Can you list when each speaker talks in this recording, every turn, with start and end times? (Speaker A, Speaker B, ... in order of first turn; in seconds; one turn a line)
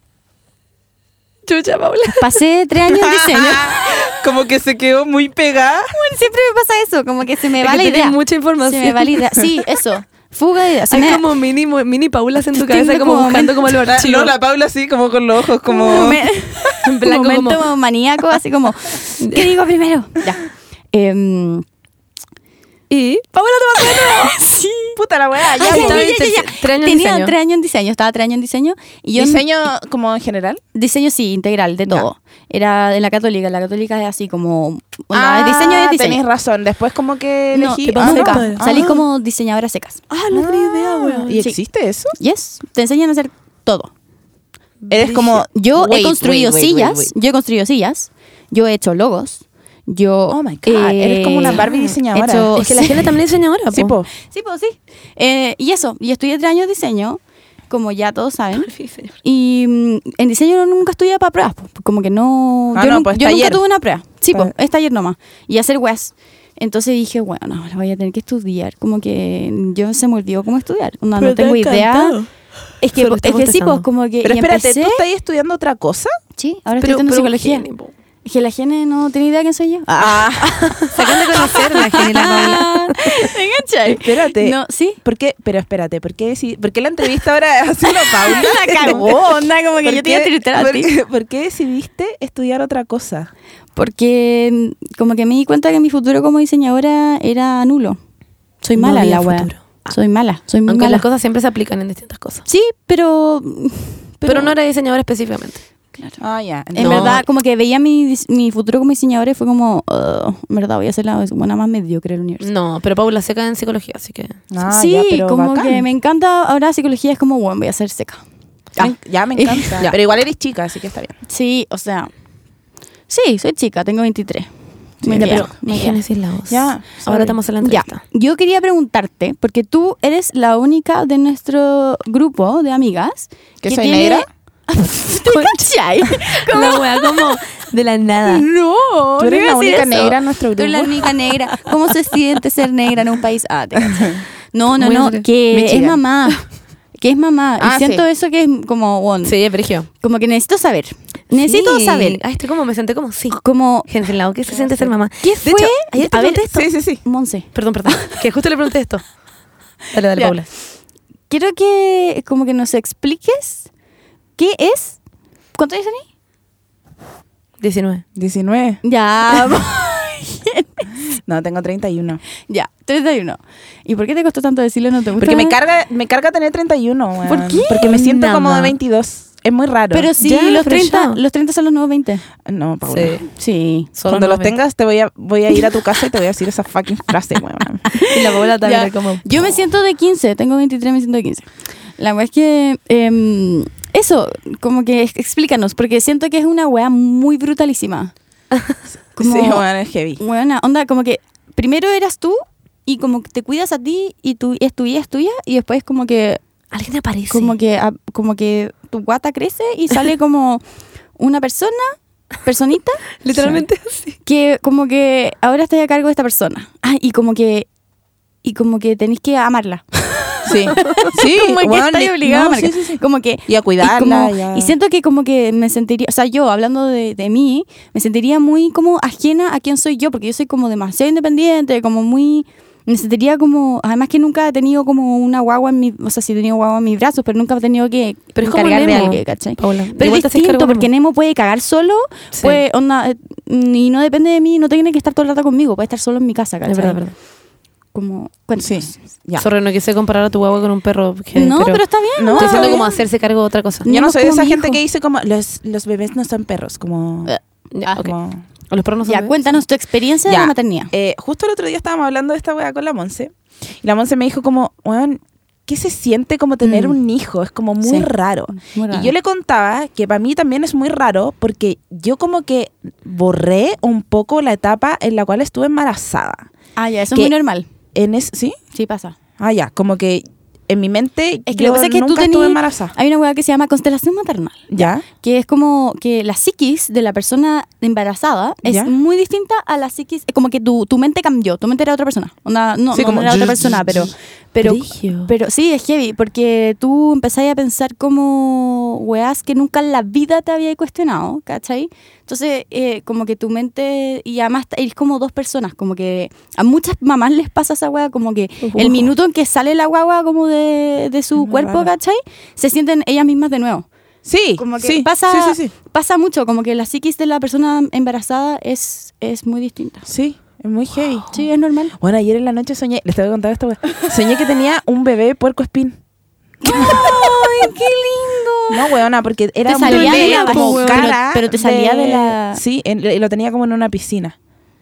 Speaker A: 1.5-2.4
Speaker B: 2.1-4.2
Speaker C: 2.9-5.9
Speaker B: 5.9-11.3
Speaker A: 7.6-9.2
Speaker A: 10.9-14.3
Speaker B: 12.5-13.8
Speaker C: 13.8-16.2
Speaker B: 15.6-21.6
Speaker A: 16.8-17.6
Speaker A: 19.2-19.5
Speaker A: 22.9-24.3
Speaker B: 23.7-25.0
Speaker C: 24.9-26.1
Speaker B: 25.5-29.7
Speaker A: 25.6-27.3
Speaker C: 29.1-30.6
Speaker B: 30.7-36.2
Speaker C: 35.1-39.0
Speaker B: 37.5-40.0
Speaker A: 37.9-39.0
Speaker A: 40.1-41.4
Speaker C: 40.3-42.2
Speaker B: 41.3-41.6
Speaker B: 42.2-43.9
Speaker A: 44.9-45.2
Speaker C: 44.9-47.1
Speaker B: 45.1-53.1
Speaker C: 50.3-52.5
Speaker A: 51.5-51.9
Speaker A: 52.5-54.0
Speaker C: 53.7-54.1
Speaker B: 54.2-72.2
Speaker A: 58.6-59.1
Speaker C: 62.7-63.6
Speaker A: 71.2-72.3
Speaker B: 72.8-75.0
Speaker A: 72.9-73.8
Speaker C: 74.2-76.1
Speaker B: 76.4-77.7
Speaker A: 76.8-77.9
Speaker B: 78.2-85.0
Speaker C: 79.9-80.9
Speaker A: 80.9-83.0
Speaker C: 83.8-93.3
Speaker B: 87.9-90.9
Speaker B: 93.8-98.0
Speaker B: 98.6-101.0
Speaker A: 98.8-100.0
Speaker A: 100.7-102.4
Speaker B: 102.5-104.5
Speaker A: 104.2-105.6
Speaker C: 106.2-107.2
Speaker B: 106.7-112.4
Speaker A: 106.8-107.2
Speaker A: 112.4-114.4
Speaker C: 114.5-115.8
Speaker B: 114.6-118.2
Speaker B: 118.7-119.9
Speaker C: 118.8-121.1
Speaker B: 121.3-122.1
Speaker B: 123.1-124.5
Speaker B: 125.0-126.0
Speaker A: 125.0-128.0
Speaker C: 125.1-125.4
Speaker C: 126.5-127.4
Speaker B: 127.6-137.4
Speaker C: 133.6-134.3
Speaker A: 135.2-138.4
Speaker B: 138.2-146.4
Speaker C: 139.2-141.3
Speaker C: 143.9-144.2
Speaker A: 144.8-145.3
Speaker C: 145.5-146.0
Speaker B: 147.0-149.4
Speaker C: 147.6-148.0
Speaker A: 149.2-149.9
Speaker B: 149.9-152.2
Speaker A: 151.3-156.7
Speaker B: 153.3-153.9
Speaker B: 154.5-158.2
Speaker C: 156.5-157.0
Speaker A: 157.5-159.0
Speaker A: 159.9-160.5
Speaker B: 161.3-163.7
Speaker B: 164.4-165.0
Speaker B: 165.5-166.1
Speaker A: 167.6-168.0
Speaker C: 168.2-168.8
Speaker B: 168.8-170.9
Speaker C: 171.2-172.2
Speaker B: 172.5-175.6
Speaker C: 175.1-180.1
Speaker B: 177.3-178.0
Speaker A: 177.8-178.7
Speaker B: 179.9-182.2
Speaker A: 180.2-181.2
Speaker C: 182.4-183.2
Speaker A: 182.9-183.3
Speaker B: 183.3-183.9
Speaker A: 183.9-184.5
Speaker C: 184.1-187.9
Speaker B: 187.9-191.5
Speaker A: 188.0-189.5
Speaker B: 192.0-198.1
Speaker B: 199.2-199.7
Speaker C: 199.2-200.2
Speaker B: 200.2-206.4
Speaker A: 206.7-207.5
Speaker B: 207.3-210.6
Speaker B: 211.2-213.2
Speaker A: 213.2-214.2
Speaker B: 214.2-217.7
Speaker B: 218.4-247.1
Speaker C: 220.4-224.7
Speaker A: 220.7-221.1
Speaker A: 238.3-240.9
Speaker A: 246.7-247.1
Speaker B: 247.9-248.9
Speaker C: 248.6-249.4
Speaker A: 249.4-251.8
Speaker B: 251.3-253.0
Speaker C: 252.2-252.8
Speaker A: 252.3-253.8
Speaker B: 253.8-254.8
Speaker C: 253.8-257.3
Speaker B: 257.2-258.0
Speaker A: 257.7-258.1
Speaker C: 258.0-258.4
Speaker A: 258.7-259.4
Speaker B: 259.1-260.9
Speaker C: 260.2-276.5
Speaker B: 266.6-267.0
Speaker B: 267.8-269.1
Speaker B: 276.8-277.6
Speaker C: 277.9-278.6
Speaker B: 278.7-279.1
Speaker C: 279.4-282.9
Speaker B: 281.5-313.9
Speaker C: 284.7-285.0
Speaker C: 288.6-288.9
Speaker C: 292.9-294.1
Speaker A: 294.6-295.3
Speaker A: 308.6-309.1
Speaker C: 311.4-311.9
Speaker C: 314.2-315.7
Speaker B: 314.6-320.0
Speaker C: 320.1-321.4
Speaker B: 321.3-321.9
Speaker C: 322.0-326.0
Speaker B: 326.6-329.0
Speaker C: 326.7-327.7
Speaker C: 328.7-334.4
Speaker B: 329.7-332.6
Speaker A: 329.7-331.1